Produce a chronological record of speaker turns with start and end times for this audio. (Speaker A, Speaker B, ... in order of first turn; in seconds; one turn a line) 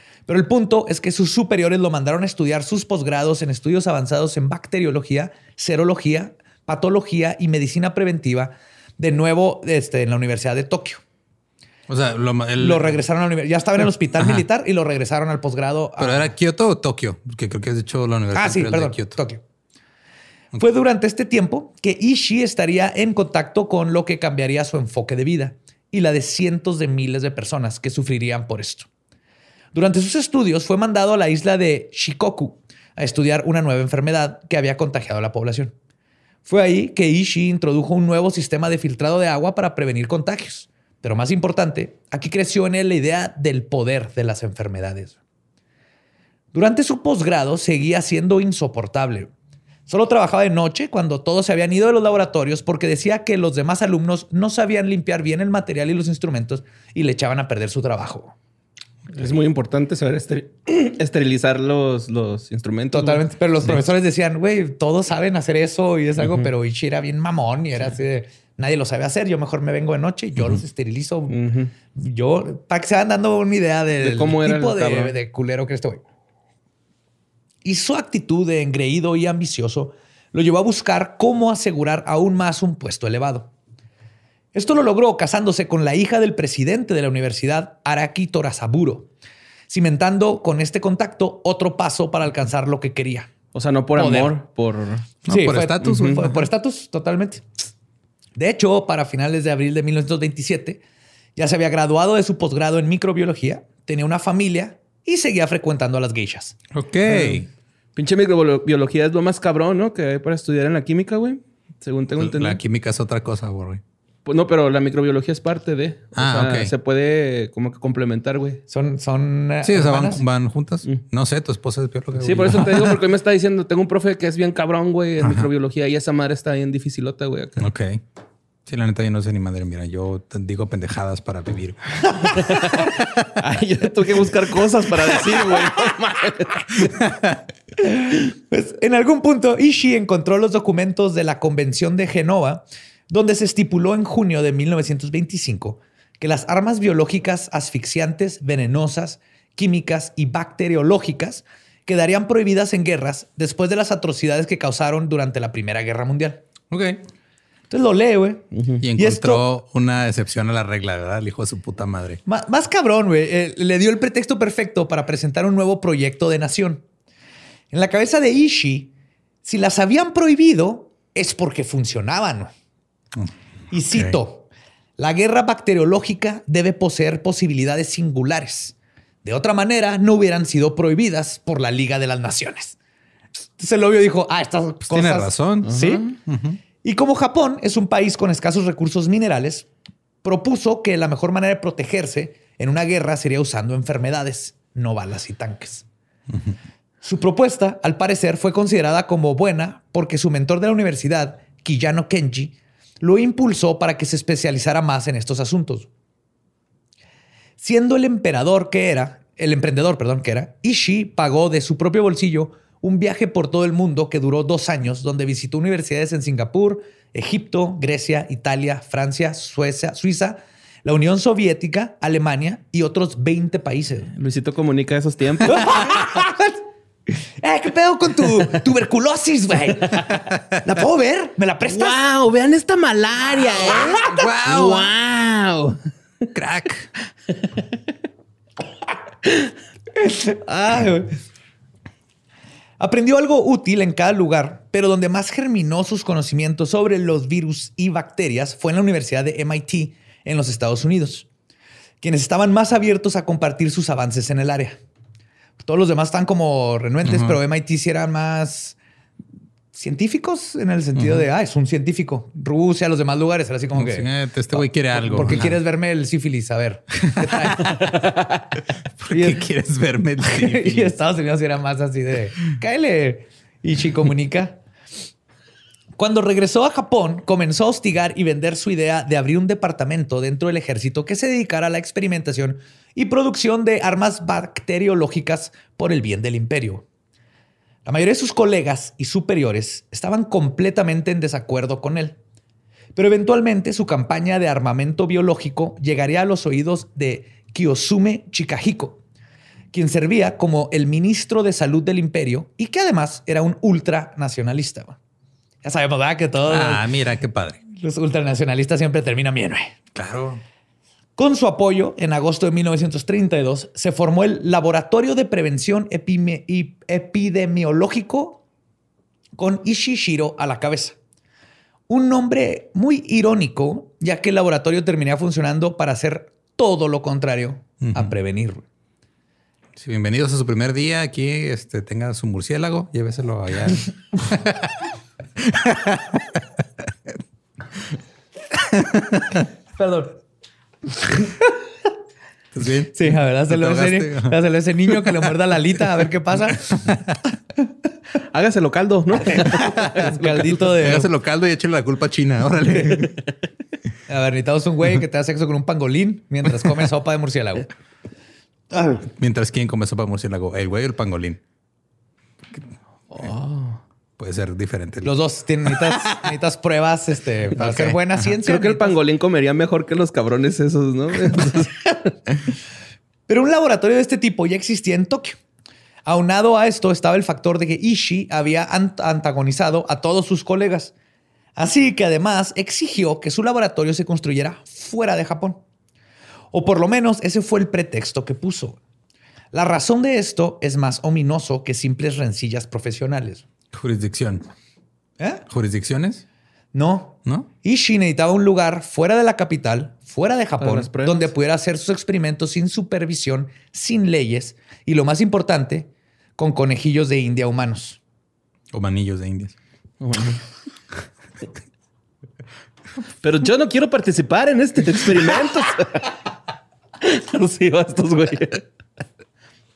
Speaker A: 0.3-11.0
Speaker B: 11.9-12.9
Speaker A: 12.6-16.3
Speaker B: 14.2-14.4
Speaker B: 16.0-19.2
Speaker A: 18.3-19.4
Speaker A: 20.6-28.9
Speaker A: 29.7-35.7
Speaker A: 36.4-45.2
Speaker A: 46.5-49.3
Speaker A: 49.9-58.3
Speaker C: 59.1-63.2
Speaker A: 62.9-71.3
Speaker C: 71.3-71.7
Speaker A: 71.9-76.0
Speaker C: 74.0-75.1
Speaker A: 77.6-83.5
Speaker A: 84.5-89.1
Speaker A: 89.7-93.3
Speaker C: 93.5-95.1
Speaker A: 93.9-94.3
Speaker B: 95.2-96.3
Speaker A: 95.3-97.4
Speaker C: 95.8-96.2
Speaker A: 98.3-100.8
Speaker A: 101.3-106.6
Speaker B: 106.7-107.5
Speaker C: 107.1-107.4
Speaker C: 108.0-112.6
Speaker B: 112.2-113.8
Speaker C: 114.2-118.6
Speaker B: 116.1-116.7
Speaker A: 118.7-120.2
Speaker B: 119.6-123.0
Speaker C: 122.2-127.6
Speaker B: 125.2-125.5
Speaker B: 127.6-128.0
Speaker B: 128.7-133.3
Speaker C: 132.2-136.7
Speaker A: 135.1-135.6
Speaker B: 136.7-137.4
Speaker A: 137.8-156.4
Speaker B: 156.7-157.0
Speaker A: 157.7-159.4
Speaker C: 158.5-158.8
Speaker B: 158.8-162.2
Speaker A: 162.3-166.8
Speaker A: 167.7-168.9
Speaker A: 169.4-172.5
Speaker A: 173.7-174.5
Speaker A: 175.0-182.8
Speaker A: 183.6-186.1
Speaker B: 184.9-186.6
Speaker C: 185.7-186.1
Speaker A: 186.8-189.7
Speaker A: 190.2-195.8
Speaker A: 197.0-205.9
Speaker A: 207.6-224.1
Speaker C: 224.1-225.9
Speaker A: 225.4-232.0
Speaker C: 231.7-235.8
Speaker A: 233.6-234.0
Speaker B: 234.0-234.9
Speaker B: 236.3-236.9
Speaker A: 239.9-241.1
Speaker A: 242.8-251.3
Speaker A: 252.0-254.8
Speaker A: 255.6-258.8
Speaker B: 257.0-257.4
Speaker A: 259.7-268.2
Speaker B: 260.9-261.2
Speaker B: 263.7-265.6
Speaker B: 267.0-267.8
Speaker C: 267.9-268.3
Speaker B: 269.0-270.9
Speaker A: 269.1-269.4
Speaker A: 270.2-274.6
Speaker A: 275.9-286.8
Speaker A: 287.8-292.2
Speaker A: 292.9-299.0
Speaker A: 299.7-305.0
Speaker A: 305.6-306.8
Speaker B: 306.5-307.6
Speaker A: 307.7-309.7
Speaker B: 309.9-310.4
Speaker A: 311.1-318.4
Speaker A: 319.4-321.0
Speaker A: 321.9-328.6
Speaker B: 327.8-328.1
Speaker B: 329.8-334.8
Speaker B: 335.4-336.4
Speaker B: 338.7-339.4
Speaker A: 339.8-340.2
Speaker A: 340.9-341.6
Speaker B: 342.5-344.4
Speaker A: 342.9-346.9
Speaker B: 344.9-345.3
Speaker B: 346.6-347.2
Speaker C: 348.3-350.9
Speaker A: 350.0-351.1
Speaker B: 350.7-353.1
Speaker A: 354.1-357.7
Speaker A: 358.7-359.0
Speaker B: 359.0-361.4
Speaker C: 363.1-363.8
Speaker B: 364.2-365.1
Speaker A: 365.0-369.0
Speaker B: 365.7-366.2
Speaker B: 367.6-367.9
Speaker C: 367.8-372.2
Speaker A: 373.3-375.4
Speaker A: 376.0-380.9
Speaker A: 381.6-385.6
Speaker A: 386.5-388.8
Speaker A: 389.5-393.4
Speaker B: 393.7-394.4
Speaker A: 395.2-395.4
Speaker B: 395.5-396.2
Speaker A: 396.7-408.0
Speaker C: 400.6-401.3
Speaker B: 408.7-409.5
Speaker C: 410.0-410.4
Speaker C: 413.2-416.2
Speaker C: 417.0-418.6